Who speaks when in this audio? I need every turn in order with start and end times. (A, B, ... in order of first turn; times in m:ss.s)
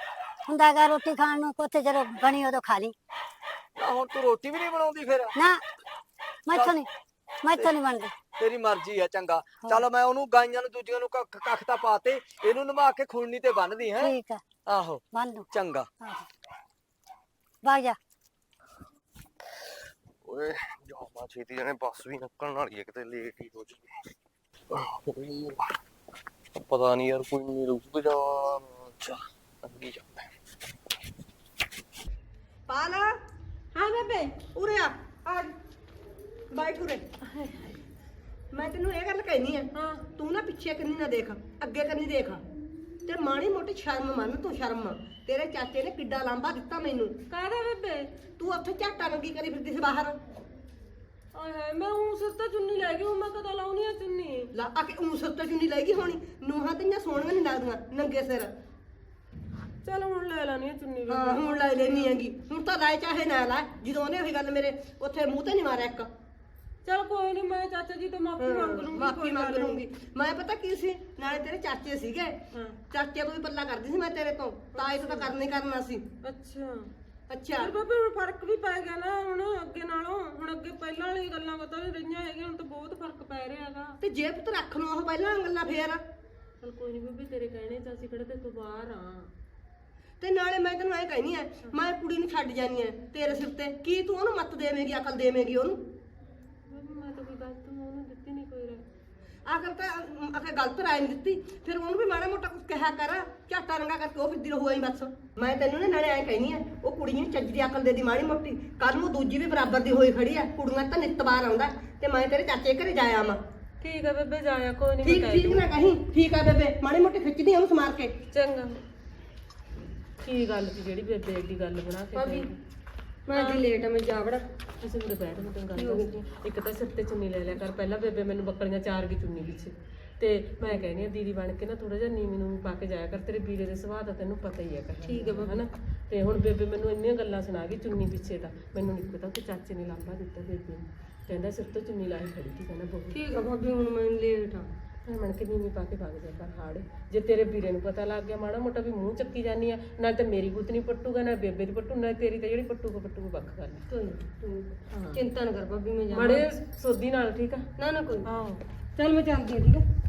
0:00.5-0:02.9 A
0:03.8-0:05.3 B
0:05.3-0:05.6 A
0:06.5-0:06.9 A
0:06.5-0:06.8 B
0:07.4-0:08.1 A
0:08.3-0:15.0 B
0:14.0-0:14.4 A
0:15.1-0:15.5 A
0:15.5-0:15.9 B
0:16.0-0:16.2 A
0:17.6-0:18.0 A
0:20.2-0:23.9 C
0:24.7-0:25.7 C
0:26.5-0:30.3 C
0:32.7-0:33.1 D
0:33.7-0:35.5 D
0:36.5-0:37.0 D
0:37.2-0:37.8 E
0:38.5-0:42.4 D
0:39.7-0:40.1 E
0:43.0-0:47.2 D
0:47.3-0:48.1 E
0:48.4-0:50.1 D
0:51.3-0:54.5 E
0:54.5-0:58.5 D
0:59.8-1:02.1 E
1:01.1-1:06.1 D
1:06.8-1:09.8 E
1:08.4-1:12.4 D
1:12.5-1:12.8 E
1:12.9-1:16.0 D
1:14.7-1:15.3 E
1:16.2-1:16.9 E
1:17.3-1:17.7 D
1:17.6-1:24.0 E
1:24.0-1:26.0 D
1:26.6-1:29.3 E
1:30.2-1:35.8 D
1:36.7-1:38.8 E
1:39.4-1:53.4 D
1:53.8-1:55.7 E
1:55.0-1:58.1 D
1:58.3-1:58.8 E
2:00.2-2:02.6 E
2:02.1-2:02.4 F
2:03.3-2:04.4 F
2:03.3-2:03.7 E
2:04.8-2:23.4 E
2:05.8-2:06.1 F
2:15.1-2:15.5 F
2:23.1-2:24.7 F
2:25.0-2:33.8 E
2:33.9-2:36.4 F
2:34.9-2:35.2 E
2:36.1-2:37.6 E
2:37.8-2:38.3 F
2:38.2-2:38.6 E
2:39.0-2:39.8 F